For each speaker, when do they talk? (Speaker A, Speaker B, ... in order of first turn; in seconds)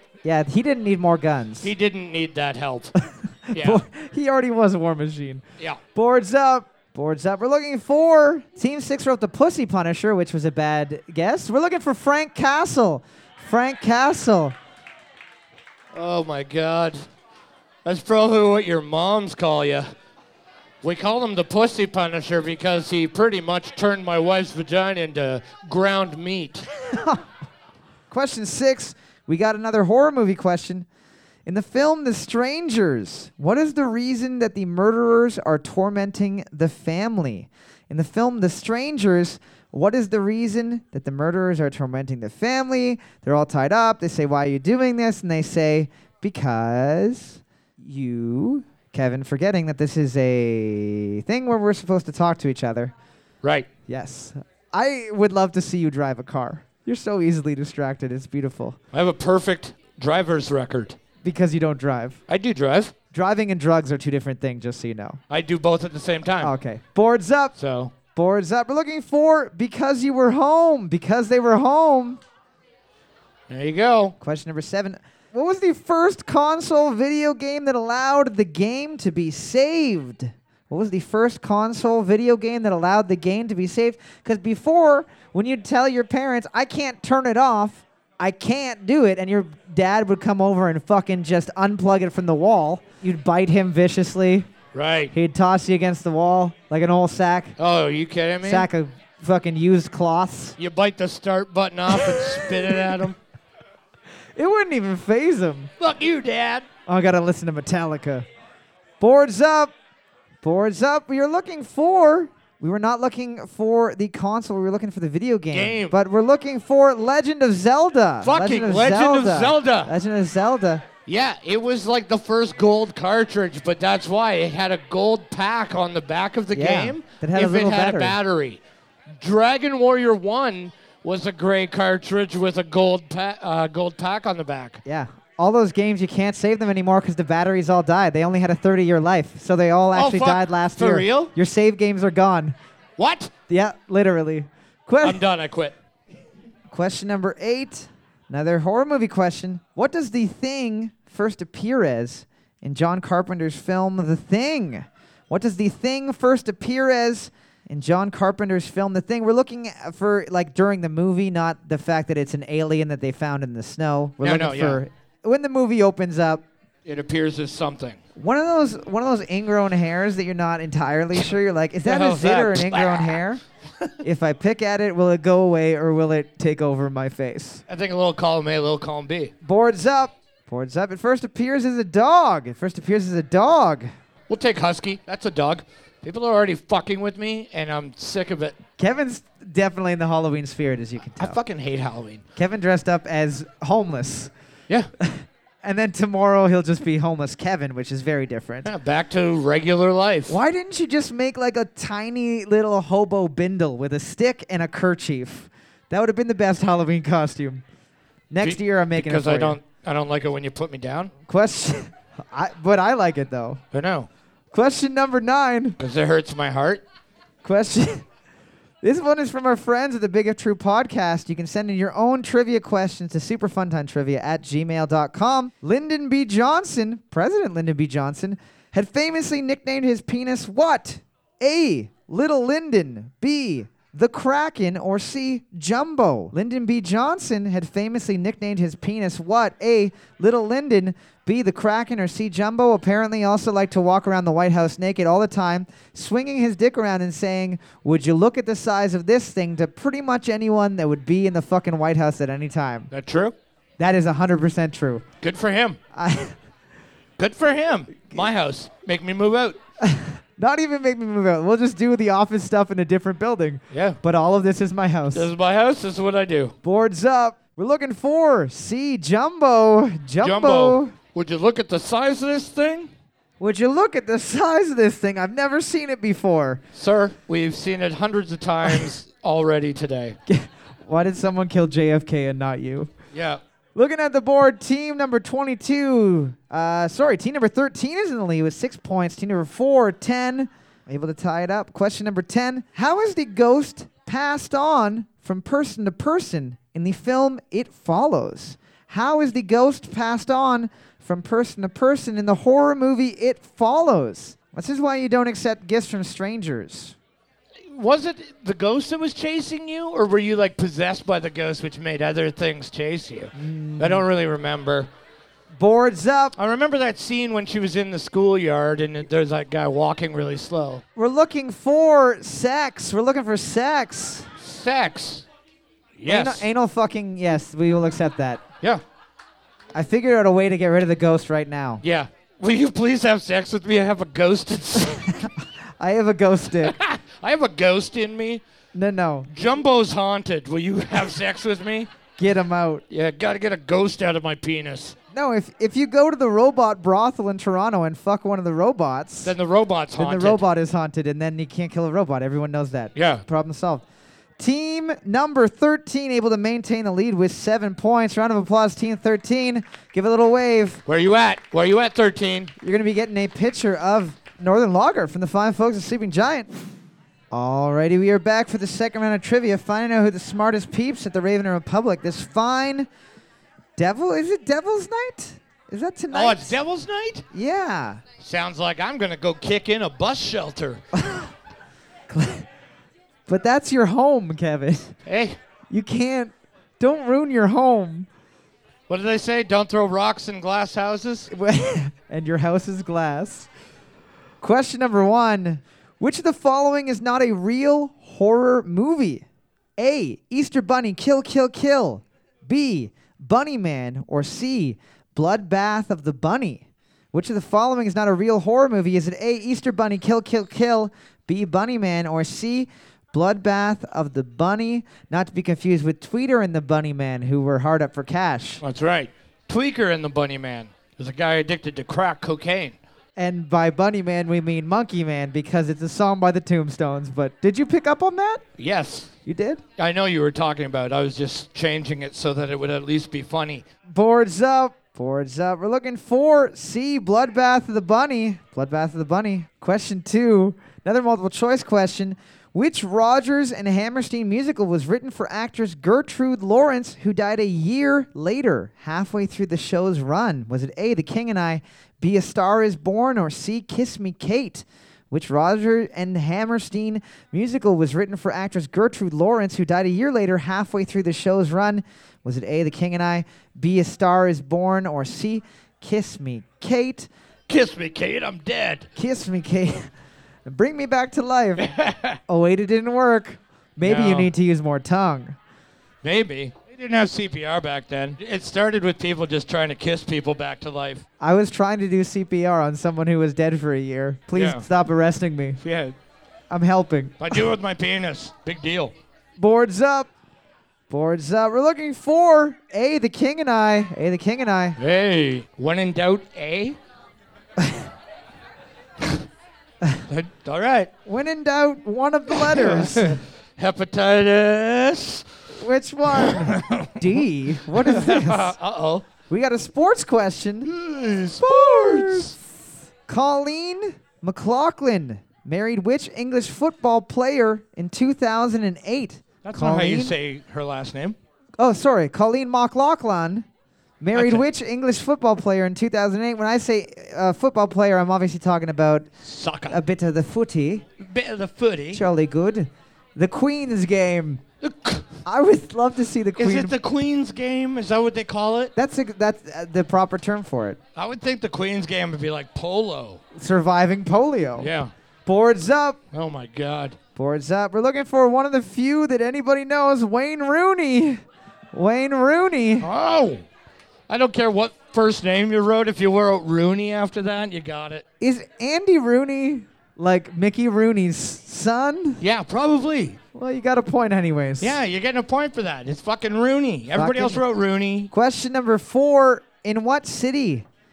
Speaker A: 0.2-1.7, 3.5-5.4, 5.9-14.6, 26.9-27.2, 28.1-30.9, 31.4-52.9, 53.9-58.8, 61.2-62.2, 63.1-65.2, 66.4-67.5, 68.1-72.2, 74.2-94.5, 95.1-97.5, 98.4-100.6, 102.0-102.5, 104.3-105.7, 106.8-108.2, 109.0-109.7, 110.4-120.8, 126.5-128.2, 134.8-142.5, 143.5-145.2, 146.7-166.4, 168.2-173.4, 174.0-177.6, 179.4-183.9, 188.8-191.4, 192.3-194.3, 195.0-198.7, 200.3-207.6, 208.3-209.6, 211.3-213.6, 214.5-215.8, 217.4-218.0, 218.8-252.9, 253.8-255.0, 255.9-256.4, 259.8-265.3, 266.6-270.9, 273.4-276.6, 280.3-282.9, 283.7-306.9, 313.3-314.0, 315.6-316.3, 320.9-324.3, 326.1-328.4, 329.7-331.8, 334.8-336.8, 338.7-339.3, 342.2-342.8, 345.1-349.3, 350.0-353.8, 354.4-360.8, 362.6-366.5, 367.3-372.9, 373.8-376.6, 377.3-378.0, 381.0-381.3, 382.1-382.5, 383.3-384.9, 385.7-388.1, 391.3-393.5, 394.4-399.2, 399.8-418.6, 423.2-428.4, 429.2-429.6, 433.9-467.1, 468.9-469.9, 470.4-471.7, 472.3-475.4, 481.2-485.6, 486.5-487.4, 489.4-490.1, 490.9-494.8, 501.1-503.2, 505.5-508.5, 509.3-510.7, 511.4-512.4, 513.1-520.1, 521.6-523.5, 524.0-529.1, 529.7-530.8, 531.9-534.4, 535.2-536.7, 538.8-540.8, 543.3-544.7, 545.2-546.0, 547.1-551.2, 551.7-552.9, 558.2-562.2, 563.3-564.8, 566.9-567.4, 568.1-570.6
Speaker B: 1.6-2.9, 3.5-3.8, 15.9-17.0, 17.8-19.9, 20.8-26.7, 53.4-53.7, 58.9-61.0, 62.3-62.9, 65.3-66.5, 67.6-67.9, 73.5-74.2, 94.7-95.1, 97.6-98.7, 100.6-103.2, 105.8-106.7, 115.5-115.9, 118.2-119.9, 121.1-128.6, 129.2-134.8, 139.9-141.3, 143.0-143.3, 145.0-145.7, 164.2-164.8, 166.8-168.0, 171.8-173.2, 177.7-179.3, 184.3-188.6, 191.2-192.2, 198.6-200.3, 208.4-211.1, 213.7-214.1, 215.8-216.8, 252.9-253.3, 255.2-255.8, 257.2-259.6, 263.7-264.0, 265.1-266.6, 270.2-272.9, 276.7-280.2, 283.1-283.4, 307.7-314.9, 316.4-320.8, 324.4-325.2, 325.9-326.5, 331.8-335.1, 336.6-338.4, 339.3-341.9, 342.9-344.9, 349.2-350.4, 352.9-353.2, 360.9-362.5, 376.1-377.3, 378.2-380.8, 385.1-385.4, 388.9-391.3, 418.6-422.8, 428.6-429.1, 429.8-433.6, 467.5-468.9, 471.6-472.2, 473.8-474.3, 476.0-481.0, 484.3-484.6, 485.6-485.9, 487.2-488.9, 494.8-496.8, 500.1-500.9, 502.3-505.2, 506.1-509.1, 510.6-512.3, 519.4-521.2, 524.1-524.5, 529.2-529.8, 531.0-532.0, 534.6-535.1, 536.4-538.7, 541.0-543.2, 544.6-544.9, 546.1-547.0, 552.8-553.4, 554.1-558.0, 562.2-563.2, 564.6-568.1